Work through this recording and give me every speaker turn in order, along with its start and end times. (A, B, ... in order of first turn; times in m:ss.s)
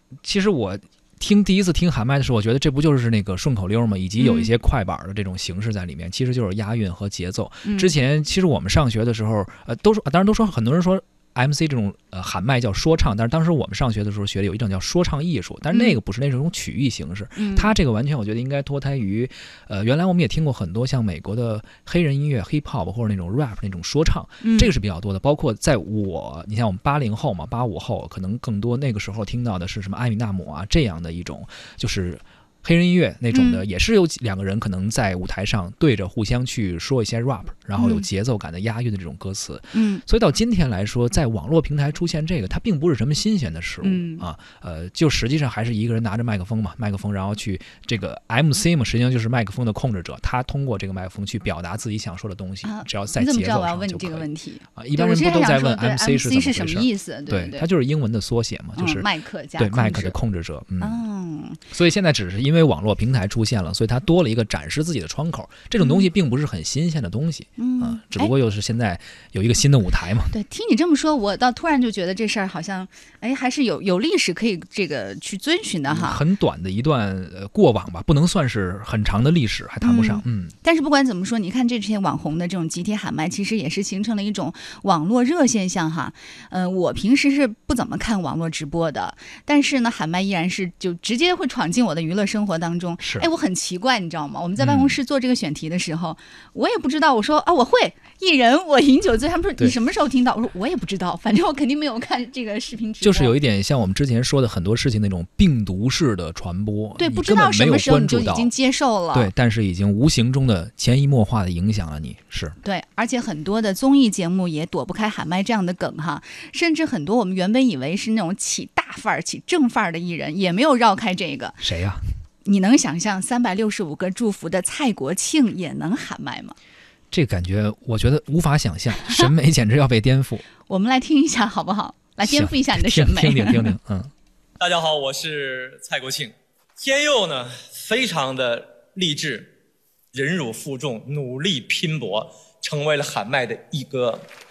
0:00.2-1:01.0 A
0:04.2-0:04.5 B
0:07.6-0:07.9 B
0:15.7-0:16.0 B
0:17.4-0:17.7 B
0:24.4-0:24.7 B
0:33.3-0:33.6 B
0:37.8-0:38.1 B
0:39.7-0:40.0 B
0:43.8-0:44.3 B
0:52.6-0:57.7 B
0:58.8-1:00.2 B
1:00.8-1:01.6 B
1:01.7-1:10.3 A
1:05.8-1:06.1 B
1:07.6-1:08.3 B
1:10.3-1:16.2 B
1:15.9-1:20.5 A
1:19.8-1:43.4 B
1:33.0-1:33.3 A
1:34.6-1:35.0 A
1:43.0-1:48.5 A
1:47.0-1:49.3 B
1:49.1-1:52.6 A
1:52.6-2:01.6 B
2:01.6-2:02.0 A
2:02.4-2:06.6 B
2:07.1-2:10.5 A
2:10.7-2:13.7 B
2:12.2-2:14.1 A
2:14.6-2:19.5 C
2:20.1-2:24.3 C